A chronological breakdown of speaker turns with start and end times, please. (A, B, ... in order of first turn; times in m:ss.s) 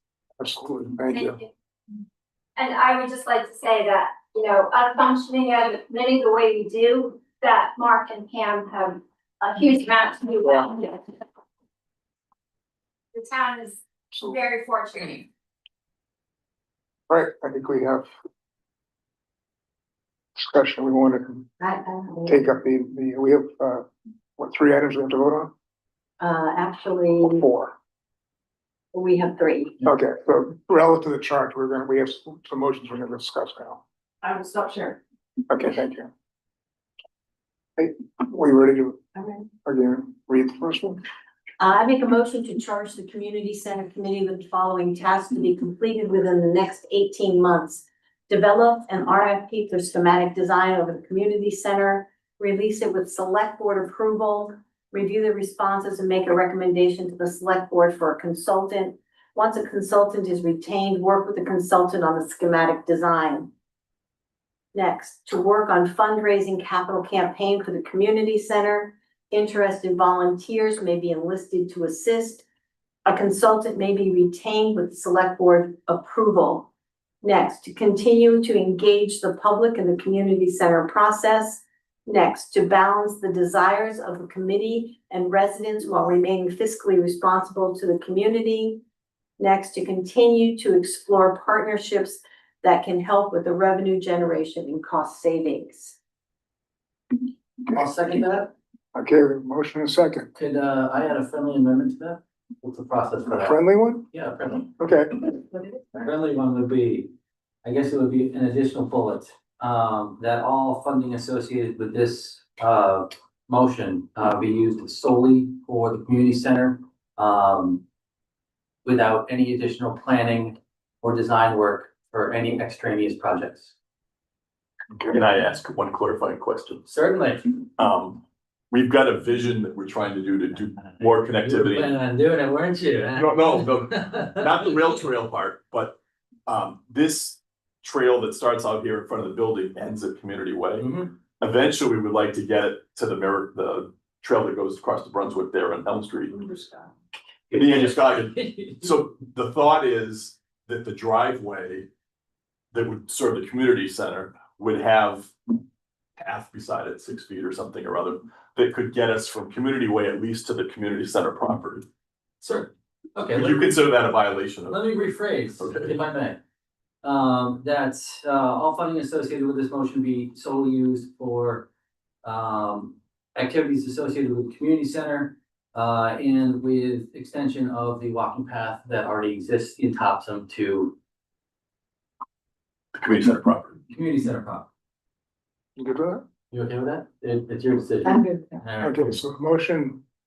0:00.4-0:01.4 A
0:01.1-0:01.5 B
0:02.6-0:11.0 B
0:13.1-0:15.3 B
0:17.1-0:18.1 A
0:20.4-0:21.5 A
0:21.6-0:22.5 C
0:22.3-0:23.9 A
0:24.4-0:25.5 A
0:26.2-0:27.5 C
0:27.2-0:27.7 A
0:28.9-0:29.8 C
0:29.8-0:33.8 A
0:34.2-0:35.0 B
0:34.4-0:34.8 C
0:35.5-0:36.1 A
0:37.8-0:39.0 A
0:39.2-0:39.5 C
0:39.6-0:41.0 A
0:41.6-1:03.5 C
1:04.7-1:12.4 C
1:13.0-1:16.7 C
1:17.2-1:28.8 C
1:29.4-1:36.0 C
1:37.7-1:38.5 D
1:39.0-1:40.3 A
1:40.4-1:44.7 D
1:43.3-1:44.1 A
1:44.7-1:45.2 A
1:46.0-1:47.1 D
1:47.6-1:57.8 D
1:58.8-2:03.8 D
2:05.0-2:06.8 E
2:06.9-2:07.5 D
2:07.8-2:12.0 E
2:11.4-2:14.7 D
2:13.2-2:26.4 E
2:20.8-2:21.1 D
2:27.5-2:28.9 D
2:27.5-2:31.9 E
2:32.7-2:35.3 E
2:36.2-2:41.9 E
2:42.4-2:43.7 D
2:43.3-2:44.9 E
2:44.7-2:46.4 D
2:45.6-2:46.0 E
2:47.0-2:51.7 D
2:52.2-3:00.9 D
3:02.9-3:03.8 E
3:03.9-3:04.7 D
3:05.8-3:06.2 A
3:06.5-3:09.2 D
3:08.0-3:08.6 C
3:08.8-3:10.0 A